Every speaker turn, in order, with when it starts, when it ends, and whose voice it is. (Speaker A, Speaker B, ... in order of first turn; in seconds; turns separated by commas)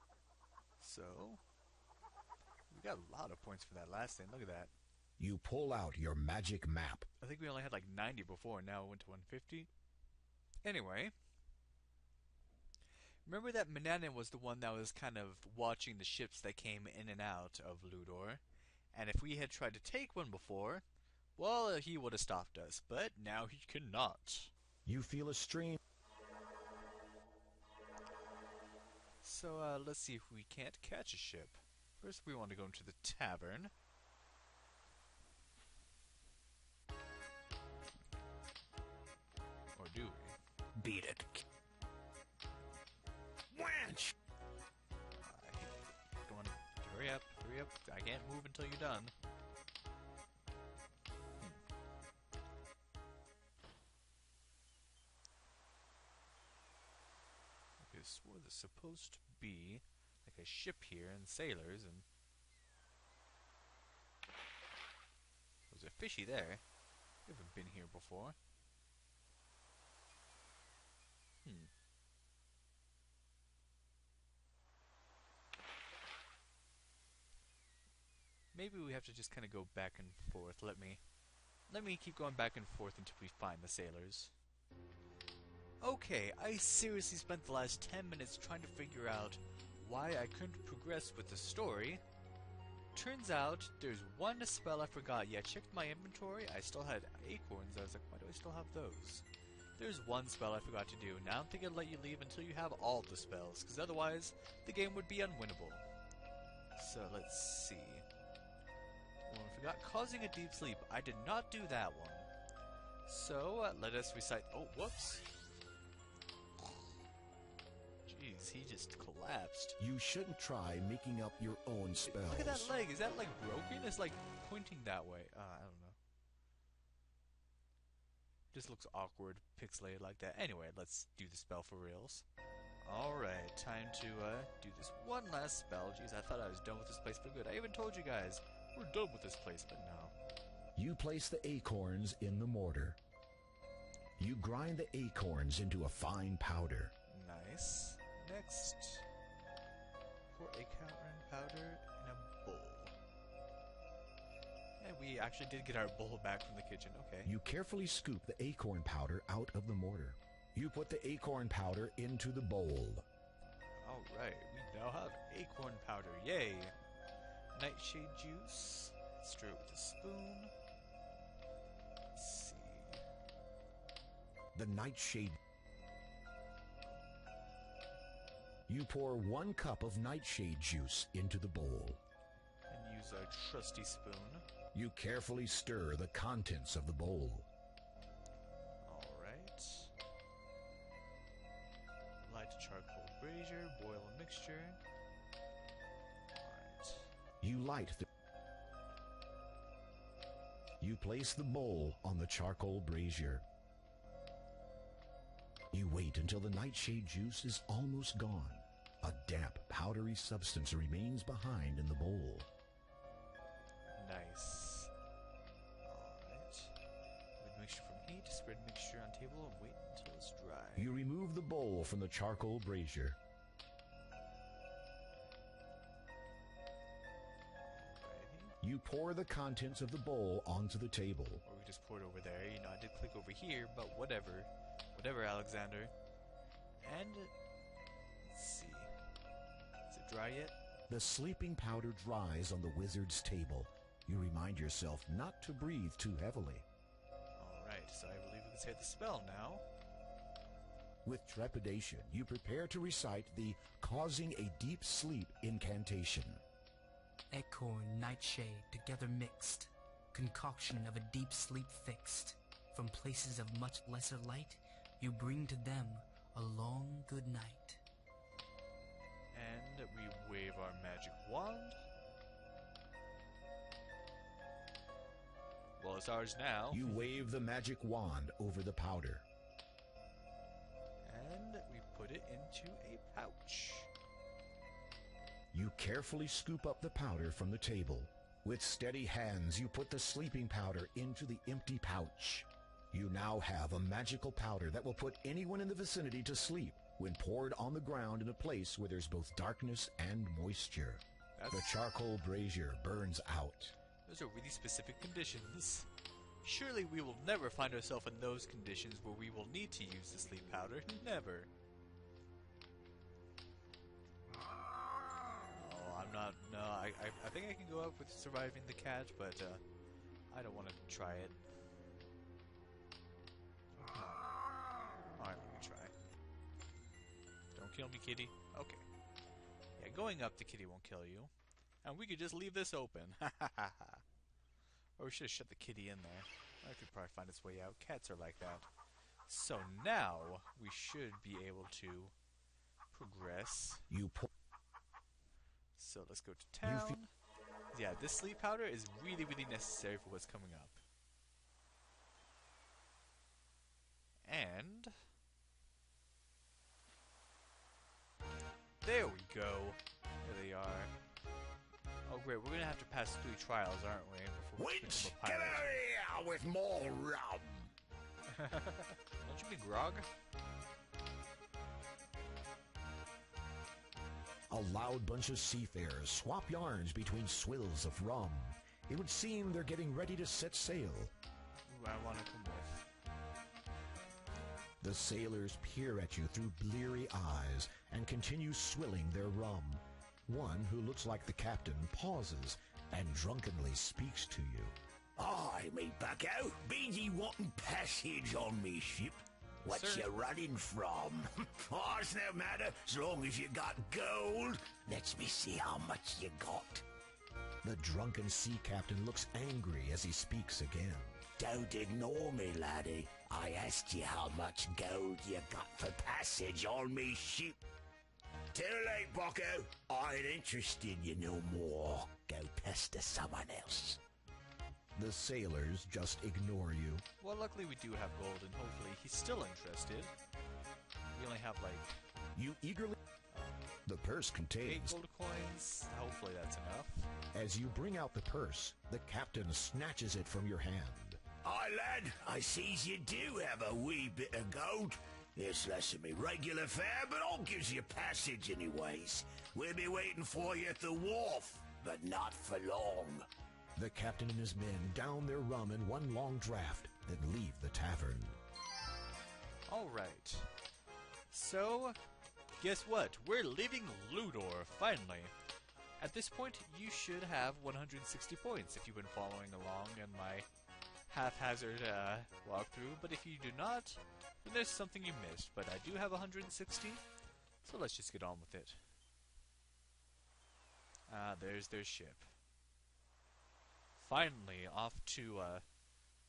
Speaker A: 0.8-1.4, Speaker A: 2.7-4.7, Speaker B: 5.2-7.1, Speaker A: 7.2-9.7, Speaker A: 10.7-11.1, Speaker A: 13.2-18.4, Speaker A: 18.9-20.9, Speaker A: 21.4-24.5, Speaker B: 24.9-25.8, Speaker A: 29.2-33.7, Speaker A: 39.7-40.4, Speaker C: 40.8-41.4, Speaker C: 43.5-44.1, Speaker A: 45.2-49.1, Speaker A: 57.8-62.0, Speaker A: 65.7-66.6, Speaker A: 67.3-68.4, Speaker A: 71.4-71.7, Speaker A: 78.5-81.0, Speaker A: 81.7-84.3, Speaker A: 85.8-92.0, Speaker A: 93.0-99.2, Speaker A: 99.8-105.8, Speaker A: 106.8-108.0, Speaker A: 109.3-112.3, Speaker A: 113.1-115.3, Speaker A: 118.1-119.8, Speaker B: 119.8-122.7, Speaker A: 122.1-126.0, Speaker A: 128.5-132.2, Speaker A: 132.8-140.2, Speaker B: 140.8-143.0, Speaker B: 144.2-146.9, Speaker A: 147.1-149.1, Speaker A: 150.3-152.9, Speaker A: 154.8-157.3, Speaker B: 157.2-163.1, Speaker A: 163.8-166.8, Speaker A: 167.5-170.5, Speaker A: 172.2-173.0, Speaker B: 174.5-175.4, Speaker B: 178.7-182.0, Speaker A: 182.7-184.5, Speaker B: 184.7-187.5, Speaker A: 188.8-189.9, Speaker A: 192.2-194.8, Speaker A: 196.3-197.1, Speaker B: 197.4-198.1, Speaker B: 200.8-203.4, Speaker B: 205.7-212.5, Speaker A: 213.9-214.9, Speaker A: 215.8-216.8, Speaker A: 217.4-220.9, Speaker B: 220.8-223.2, Speaker A: 227.6-228.6, Speaker B: 228.6-231.4, Speaker A: 231.4-235.9, Speaker A: 236.8-237.3, Speaker A: 238.2-238.9, Speaker A: 239.9-240.6, Speaker B: 240.9-246.7, Speaker A: 247.4-249.7, Speaker B: 251.1-256.4, Speaker D: 257.3-267.8, Speaker A: 269.3-271.8, Speaker A: 275.8-276.9, Speaker B: 276.7-279.2, Speaker A: 281.1-283.9, Speaker B: 285.5-303.8, Speaker A: 301.4-301.8, Speaker A: 304.1-305.9, Speaker A: 306.4-311.5, Speaker A: 315.6-319.6, Speaker A: 320.3-321.4, Speaker A: 323.9-324.3, Speaker A: 325.2-325.9, Speaker A: 327.6-328.9, Speaker A: 329.8-331.3, Speaker A: 331.8-334.0, Speaker A: 335.0-338.7, Speaker A: 339.3-342.1, Speaker A: 342.9-343.9, Speaker B: 343.9-344.3, Speaker A: 345.8-347.1, Speaker B: 346.6-347.0, Speaker A: 347.7-350.8, Speaker A: 354.3-355.0, Speaker A: 358.8-360.9, Speaker A: 362.1-365.7, Speaker C: 364.6-367.6, Speaker B: 364.8-365.1, Speaker A: 368.3-370.1, Speaker B: 374.5-381.1, Speaker A: 381.7-382.9, Speaker B: 384.8-394.8, Speaker C: 395.2-406.9, Speaker A: 399.6-400.1, Speaker B: 407.6-411.2, Speaker C: 411.4-417.6, Speaker C: 418.5-424.0, Speaker B: 425.0-427.0, Speaker A: 427.2-430.1, Speaker A: 431.1-431.9, Speaker B: 432.4-433.0, Speaker A: 433.3-433.6, Speaker B: 433.9-435.0, Speaker A: 434.6-437.1, Speaker B: 437.3-441.2, Speaker C: 441.4-453.3, Speaker B: 453.8-458.4, Speaker A: 459.7-460.5, Speaker A: 461.3-462.0, Speaker A: 462.6-465.3, Speaker A: 466.0-470.5, Speaker A: 471.1-477.1, Speaker A: 477.6-478.8, Speaker A: 481.1-482.3, Speaker A: 484.0-485.7